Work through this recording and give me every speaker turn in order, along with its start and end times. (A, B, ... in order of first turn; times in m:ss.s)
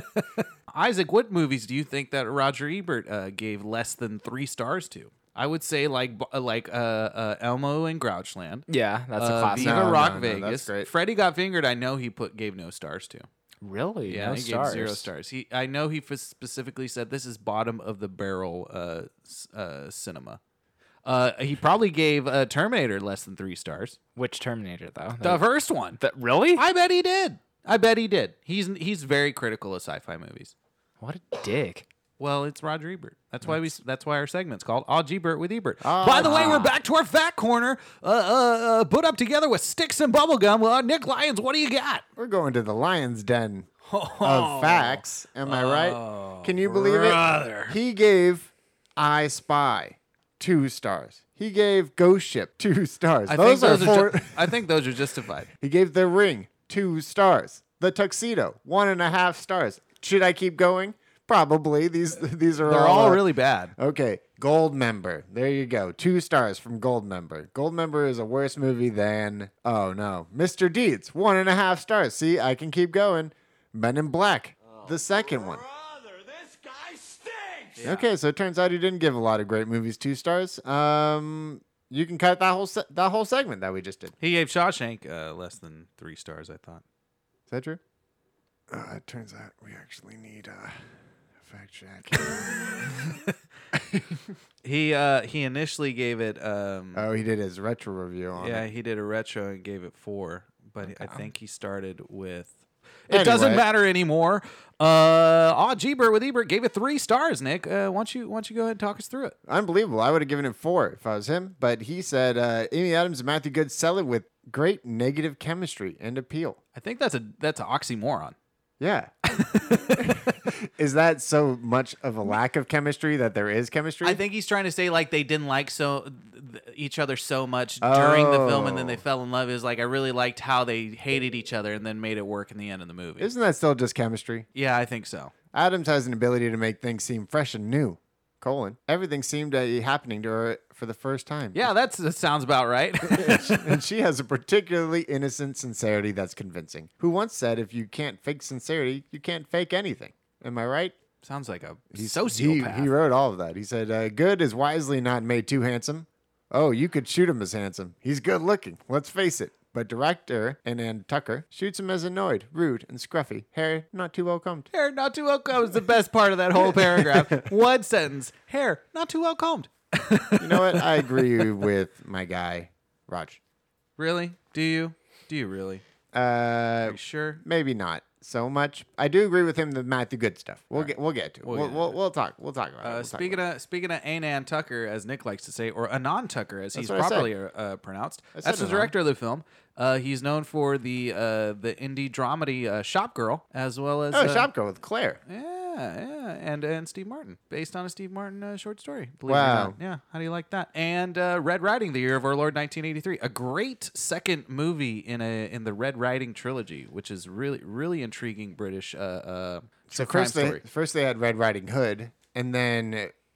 0:00.2-0:13.3 A
0:08.7-0:10.2 B
0:09.5-0:10.9 C
0:13.6-0:15.1 B
0:14.1-0:20.4 A
0:21.0-0:24.0 A
0:24.2-0:26.6 B
0:25.2-0:26.0 A
0:26.5-0:30.5 A
0:31.0-0:31.9 B
0:32.2-0:42.0 A
0:35.8-0:36.7 C
0:36.1-0:36.8 B
0:42.2-0:43.7 C
0:43.9-0:47.8 A
0:44.2-0:54.6 C
0:53.3-0:55.5 A
0:55.5-1:03.2 C
1:02.6-1:03.8 A
1:03.8-1:15.7 C
1:17.8-1:18.1 A
1:17.8-1:24.2 C
1:24.2-1:26.8 A
1:27.5-1:27.8 C
1:28.7-1:30.9 C
1:31.4-1:33.2 C
1:32.9-1:33.3 A
1:33.7-1:34.2 C
1:34.6-1:37.1 A
1:36.9-1:38.7 C
1:38.4-1:49.4 A
1:43.1-1:43.6 C
1:49.5-1:56.6 C
1:56.8-1:58.4 A
1:58.8-2:04.2 C
1:59.4-2:00.0 A
2:04.0-2:13.3 A
2:07.8-2:09.0 C
2:13.2-2:14.5 C
2:14.6-2:15.3 A
2:15.5-2:21.7 C
2:21.5-2:23.8 A
2:23.0-2:31.0 C
2:31.2-2:32.9 A
2:31.9-2:44.7 C
2:44.7-2:51.5 A
2:46.6-2:47.5 C
2:50.4-2:53.4 C
2:54.0-2:55.8 A
2:56.1-3:03.4 C
2:56.8-2:57.4 A
3:00.7-3:02.0 A
3:02.8-3:14.5 A
3:06.8-3:07.3 C
3:08.4-3:08.9 C
3:14.1-3:15.2 C
3:15.3-3:30.6 A
3:19.3-3:19.8 C
3:29.9-3:33.1 C